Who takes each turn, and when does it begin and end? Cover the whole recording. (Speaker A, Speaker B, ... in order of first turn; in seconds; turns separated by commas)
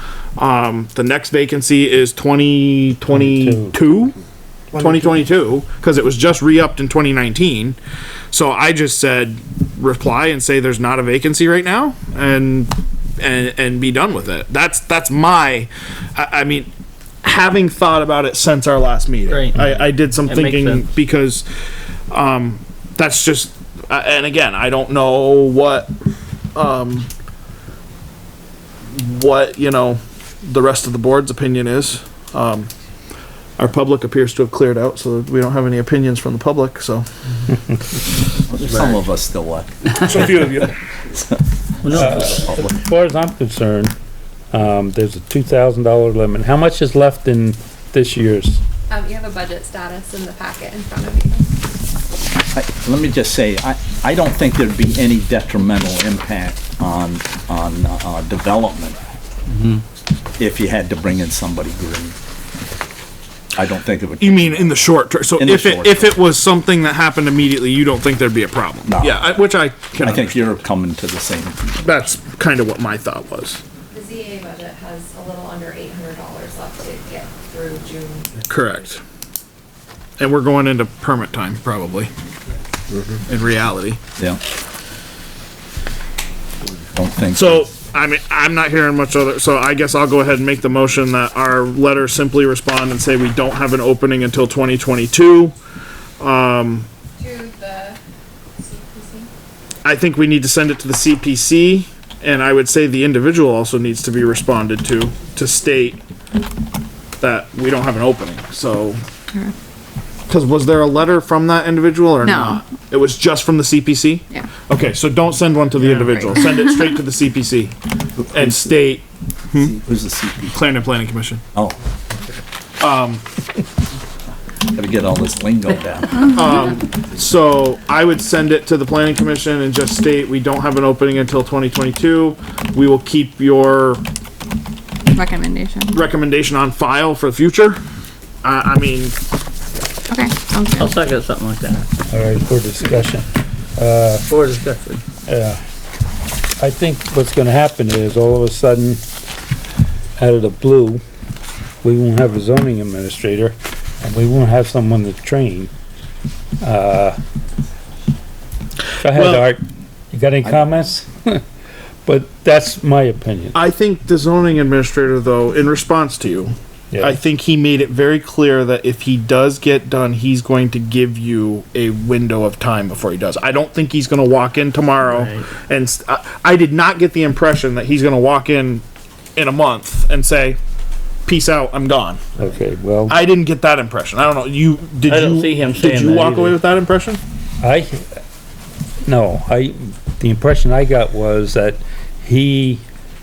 Speaker A: 0.4-4.1, Speaker B: 3.1-3.8, Speaker A: 4.7-7.8, Speaker A: 8.3-16.7, Speaker A: 17.2-21.4, Speaker C: 19.3-20.9, Speaker A: 22.1-25.9, Speaker A: 26.5-27.1, Speaker A: 28.9-32.7, Speaker A: 33.6-37.0, Speaker D: 38.5-40.5, Speaker A: 39.9-40.7, Speaker D: 41.1-42.7, Speaker C: 41.8-42.3, Speaker B: 41.9-43.9, Speaker B: 44.5-48.6, Speaker E: 48.9-51.5, Speaker D: 52.5-59.0, Speaker D: 60.4-62.1, Speaker D: 63.5-66.2, Speaker A: 64.2-70.4, Speaker D: 68.9-69.3, Speaker D: 70.0-71.7, Speaker A: 71.8-73.6, Speaker E: 73.9-78.5, Speaker A: 78.5-79.0, Speaker A: 80.2-82.1, Speaker A: 83.2-84.0, Speaker D: 86.9-87.6, Speaker A: 87.3-95.5, Speaker A: 96.2-96.9, Speaker E: 97.2-98.0, Speaker E: 98.6-99.3, Speaker A: 99.8-106.0, Speaker A: 107.2-109.0, Speaker A: 110.3-117.7, Speaker F: 112.2-112.6, Speaker F: 116.3-116.7, Speaker D: 118.3-118.6, Speaker A: 118.3-119.7, Speaker D: 119.5-120.6, Speaker A: 120.5-121.4, Speaker A: 122.8-123.2, Speaker D: 124.7-126.4, Speaker A: 126.3-134.0, Speaker F: 135.1-136.0, Speaker A: 135.9-137.8, Speaker A: 138.4-139.2, Speaker F: 140.1-141.0, Speaker C: 140.8-141.9, Speaker B: 142.1-144.2, Speaker C: 144.3-145.0, Speaker B: 145.3-145.6, Speaker B: 146.6-149.0, Speaker B: 150.2-151.0, Speaker B: 151.8-155.7, Speaker B: 156.6-157.2, Speaker B: 159.0-159.6, Speaker A: 159.1-159.5, Speaker B: 160.1-161.4, Speaker B: 162.0-163.6, Speaker A: 163.5-178.8, Speaker B: 166.9-167.2, Speaker A: 179.3-180.6, Speaker A: 181.2-182.2, Speaker B: 182.4-183.2, Speaker A: 183.1-187.2, Speaker C: 185.1-186.6, Speaker B: 187.6-188.2, Speaker B: 189.0-192.8